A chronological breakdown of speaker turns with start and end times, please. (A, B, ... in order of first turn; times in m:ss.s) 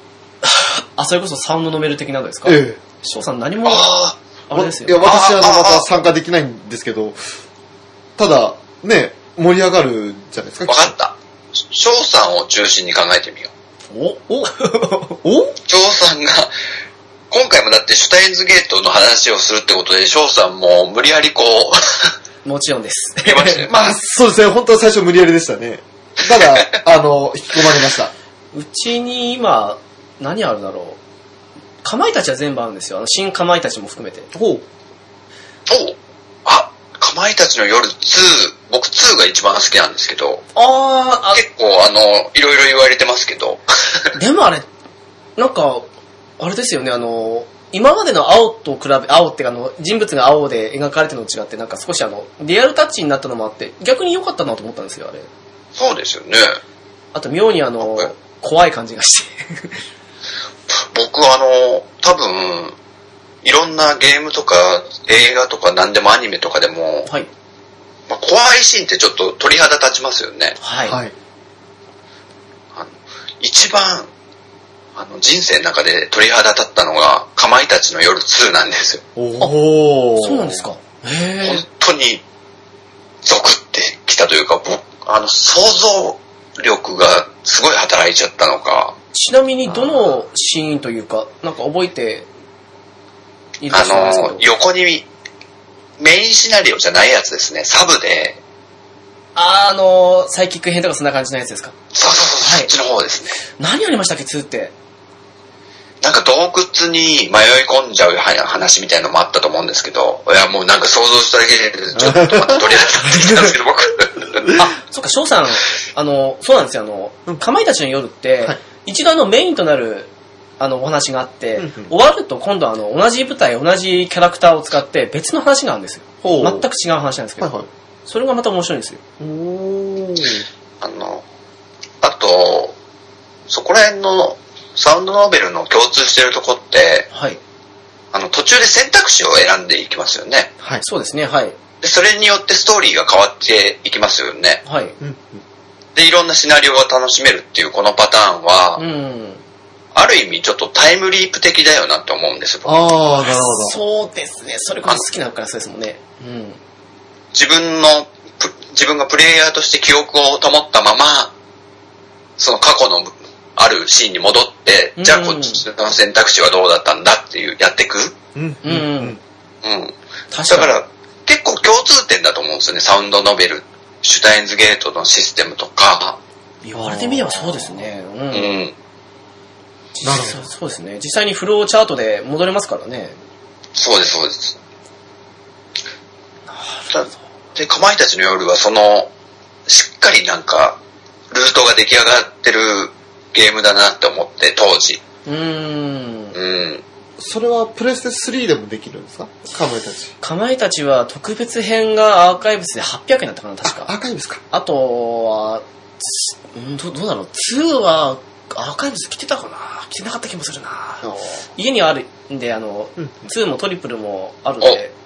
0:00.4-0:05.0 A
0:02.4-0:02.8 B
0:03.6-0:04.1 C
0:04.5-0:07.2 B
0:05.0-0:05.9 C
0:08.2-0:10.9 B
0:10.7-0:13.5 C
0:13.9-0:15.2 A
0:15.2-0:15.5 B
0:15.6-0:16.5 C
0:17.3-0:22.1 C
0:22.4-0:23.6 A
0:23.2-0:23.7 C
0:23.7-0:28.1 B
0:26.4-0:26.7 C
0:28.5-0:31.0 A
0:31.8-0:34.3 A
0:34.3-0:34.6 B
0:35.7-0:40.4 C
0:40.5-0:41.4 A
0:41.3-0:44.1 C
0:44.1-0:44.7 A
0:45.4-0:45.9 A
0:46.4-0:55.3 A
0:55.8-0:56.6 C
0:57.1-0:59.8 A
1:00.7-1:02.8 C
1:03.4-1:07.1 C
1:08.1-1:10.6 C
1:10.6-1:11.0 A
1:10.9-1:11.1 B
1:12.7-1:14.1 C
1:15.0-1:19.0 C
1:19.2-1:20.6 B
1:20.2-1:21.6 A
1:21.4-1:22.2 C
1:23.2-1:29.0 C
1:29.1-1:32.3 A
1:33.6-1:34.4 A
1:33.7-1:35.0 C
1:36.0-1:38.4 C
1:39.3-1:41.7 A
1:41.9-1:43.4 C
1:42.4-1:42.7 A
1:43.6-1:44.7 A
1:46.0-1:54.5 C
1:51.9-1:52.6 B
1:53.0-1:53.5 A
1:54.6-2:07.5 A
2:01.6-2:01.9 B
2:06.2-2:06.6 B
2:07.4-2:07.7 B
2:08.0-2:09.0 A
2:09.2-2:10.4 B
2:10.8-2:11.2 C
2:12.0-2:12.7 C
2:13.5-2:17.1 C
2:17.1-2:17.4 A
2:18.1-2:20.5 C
2:20.8-2:21.6 A
2:21.8-2:24.6 C
2:24.6-2:25.0 A
2:25.0-2:25.4 B
2:25.9-2:28.8 C
2:28.8-2:29.4 A
2:29.9-2:32.8 C
2:32.6-2:33.8 B
2:33.2-2:36.6 A
2:37.3-2:41.3 C
2:42.4-2:48.2 C
2:45.0-2:45.6 A
2:48.3-2:49.2 B
2:48.6-2:49.2 A
2:49.6-2:49.9 C
2:50.3-2:50.8 A
2:50.5-2:56.2 C
2:56.6-2:58.5 A
2:56.8-2:57.8 B
2:58.3-2:58.7 C
3:00.0-3:03.2 A
3:00.0-3:00.4 B
3:03.7-3:04.6 C
3:06.5-3:07.1 A
3:06.9-3:09.1 C
3:09.7-3:10.8 C
3:11.3-3:15.0 C
3:15.2-3:16.4 A
3:16.3-3:16.8 C
3:17.2-3:20.1 B
3:20.2-3:23.9 A
3:23.6-3:24.4 B
3:24.5-3:34.9 A